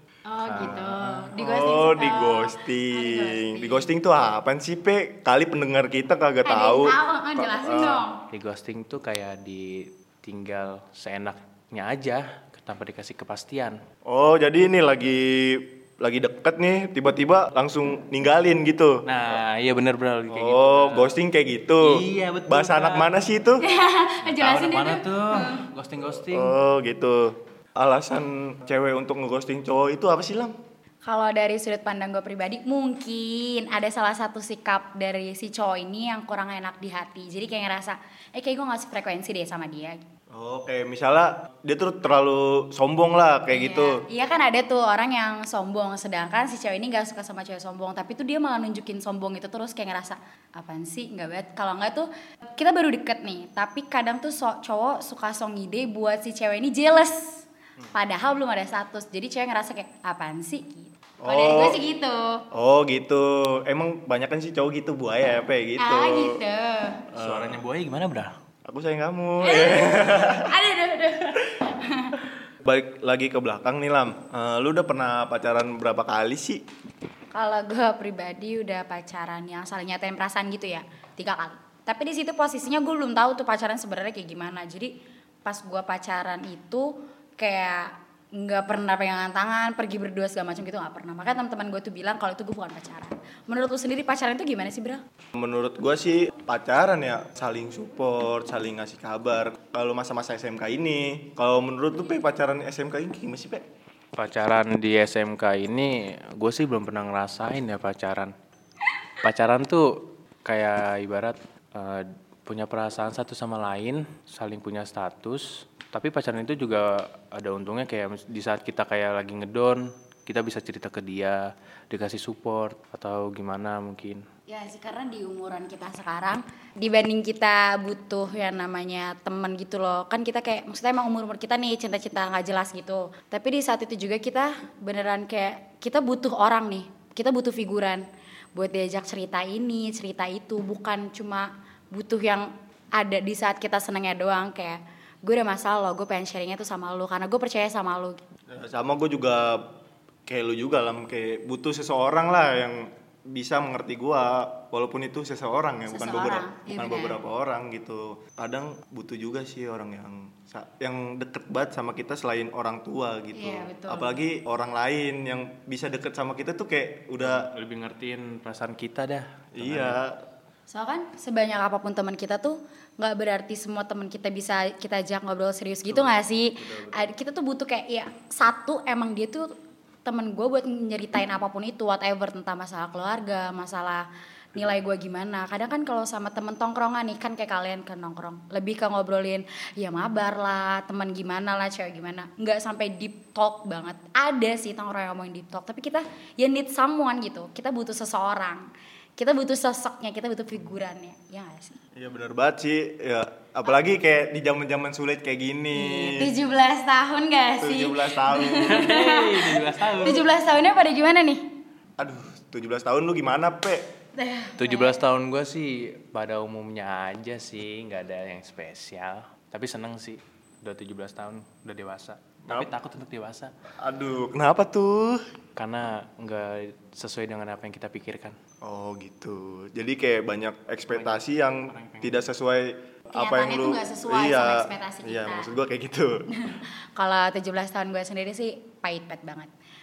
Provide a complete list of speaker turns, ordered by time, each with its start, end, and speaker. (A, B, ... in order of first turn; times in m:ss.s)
0:00.2-0:03.9 A
0:00.4-0:01.2 B
0:01.3-0:08.0 C
0:06.4-0:08.2 A
0:08.3-0:13.8 B
0:14.1-0:19.0 C
0:19.1-0:21.1 B
0:20.3-0:21.9 C
0:21.8-0:23.2 B
0:22.5-0:23.6 C
0:23.6-0:25.6 A
0:24.2-0:26.5 B
0:26.3-0:30.5 C
0:31.0-0:40.0 A
0:40.3-0:44.0 C
0:43.5-1:02.4 A
1:01.2-1:01.8 C
1:02.5-1:06.4 C
1:05.8-1:07.1 A
1:07.1-1:07.6 C
1:07.1-1:08.3 B
1:08.6-1:10.5 C
1:09.4-1:12.2 A
1:12.6-1:16.6 C
1:17.3-1:24.9 A
1:25.4-1:35.0 A
1:35.3-1:43.6 C
1:44.2-1:48.3 B
1:49.2-2:04.2 B
2:04.5-2:28.2 A
2:28.5-2:29.6 C
2:30.2-2:47.5 C
2:35.9-2:37.2 A
2:43.3-2:44.2 A
2:47.2-2:50.0 B
2:49.5-2:50.2 C
2:50.7-2:59.5 A
2:55.9-2:57.0 B
3:00.0-3:21.8 A
3:22.0-3:26.3 C
3:25.7-3:31.4 A
3:27.6-3:29.0 C
3:28.6-3:30.2 B
3:32.0-3:33.8 C
3:34.2-3:35.0 A
3:34.6-3:43.5 B
3:43.8-3:45.2 C
3:45.6-3:48.4 B
3:48.6-3:56.2 C
3:50.9-3:52.2 B
3:53.1-3:55.5 A
3:56.3-3:59.5 A